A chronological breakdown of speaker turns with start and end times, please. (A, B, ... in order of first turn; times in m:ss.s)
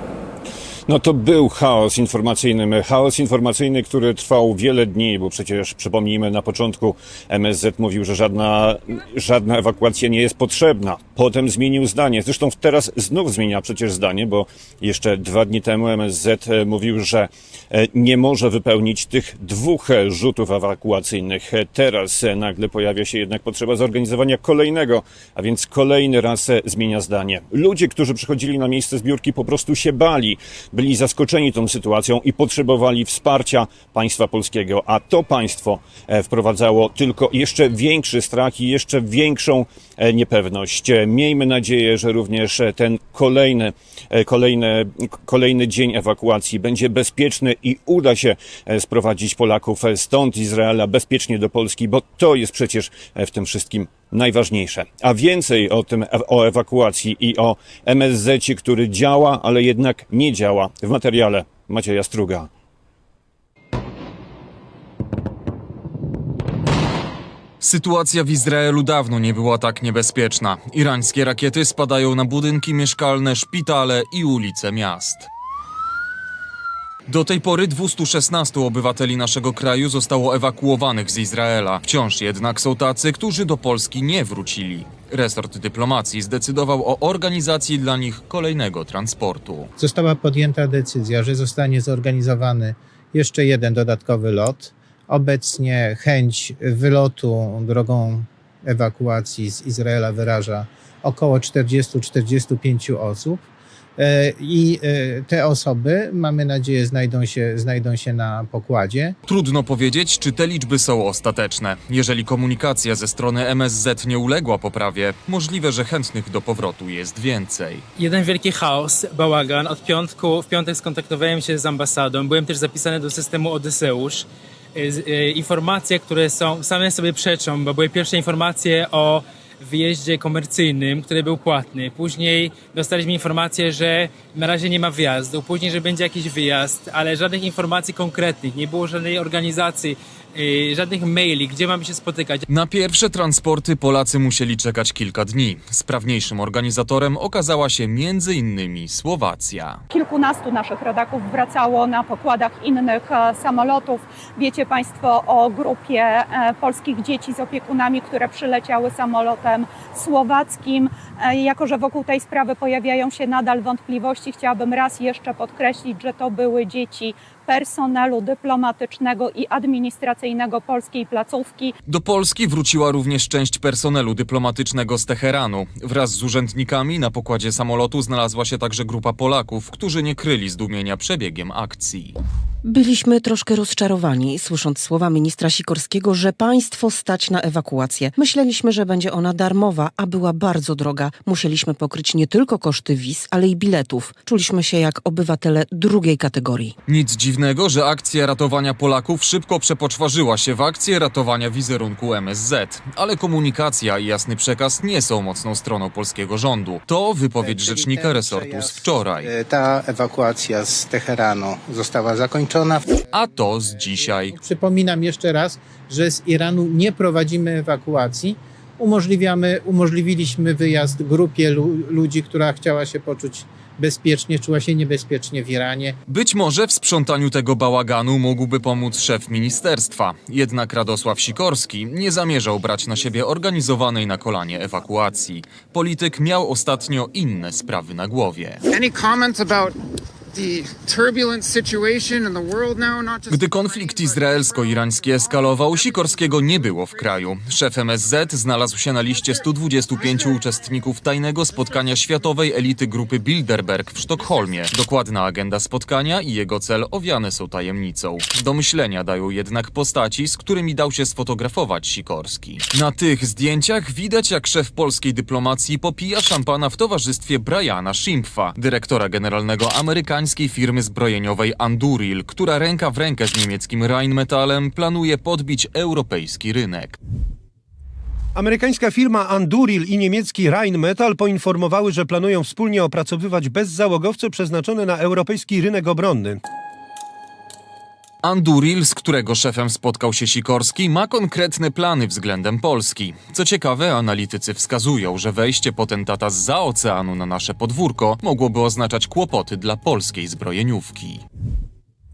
0:00.9-1:02.5 A
1:07.6-1:15.3 B
1:17.1-1:29.7 B
1:29.8-1:43.4 C
1:44.0-1:49.2 C
1:49.3-1:57.8 B
1:58.0-2:22.4 D
2:22.5-2:29.8 B
2:29.9-2:51.8 E
2:51.9-3:02.2 B
3:02.6-3:16.8 F
3:16.9-3:29.3 B
3:27.4-3:33.0 C
3:33.1-3:34.4 B
3:34.2-3:46.0 C
3:46.1-3:58.6 B
3:58.7-3:59.8 G
4:00.3-4:04.6 G
4:03.3-4:37.0 B
4:38.4-4:46.4 H
4:48.2-5:01.2 B